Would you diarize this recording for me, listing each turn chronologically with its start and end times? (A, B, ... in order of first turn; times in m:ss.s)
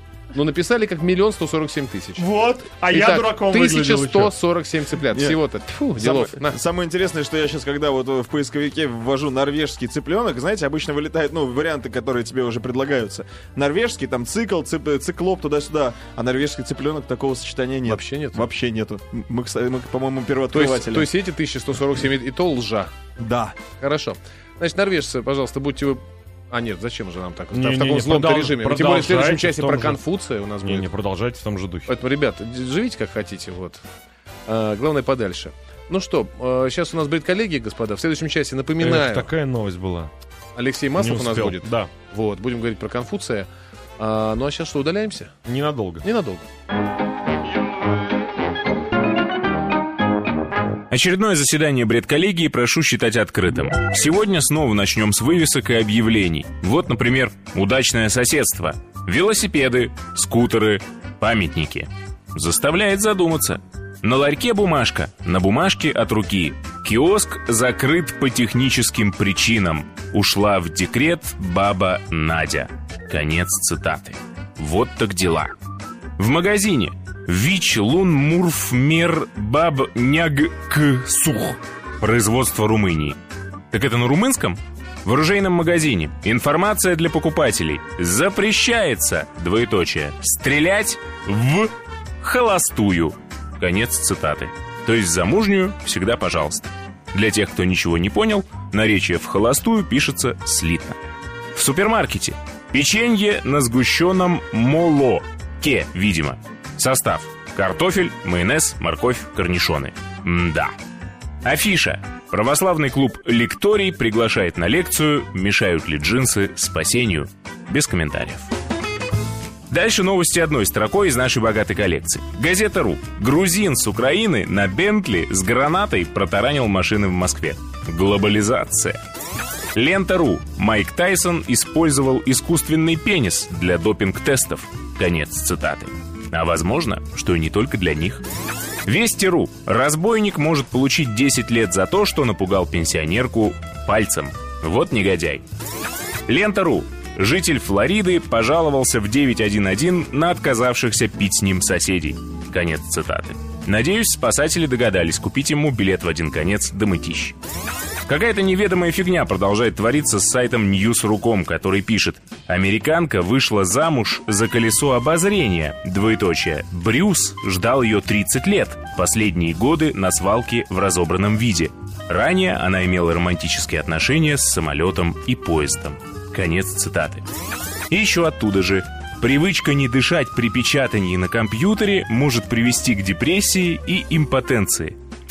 0:00.3-0:02.3 A
0:02.2-0:04.3 B
0:02.9-0:06.6 A
0:05.1-0:05.4 C
0:06.0-0:21.1 C
0:17.8-0:18.5 A
0:20.5-0:22.9 A
0:23.2-0:23.6 C
0:23.8-0:30.8 A
0:27.5-0:30.0 B
0:30.6-0:31.9 B
0:31.9-0:33.8 A
0:34.4-0:39.3 A
0:38.8-0:40.1 B
0:40.5-0:45.3 A
0:41.0-0:41.9 B
0:45.4-0:46.0 B
0:46.0-0:46.5 A
0:50.9-1:15.5 D
1:16.2-1:23.2 D
1:23.7-1:31.7 D
1:32.2-1:41.0 D
1:41.5-1:50.7 D
1:51.4-1:58.5 D
1:59.7-2:09.0 D
2:09.7-2:18.2 D
2:18.8-2:25.4 D
2:26.3-2:37.3 D
2:38.1-2:57.2 D
2:57.9-3:04.9 D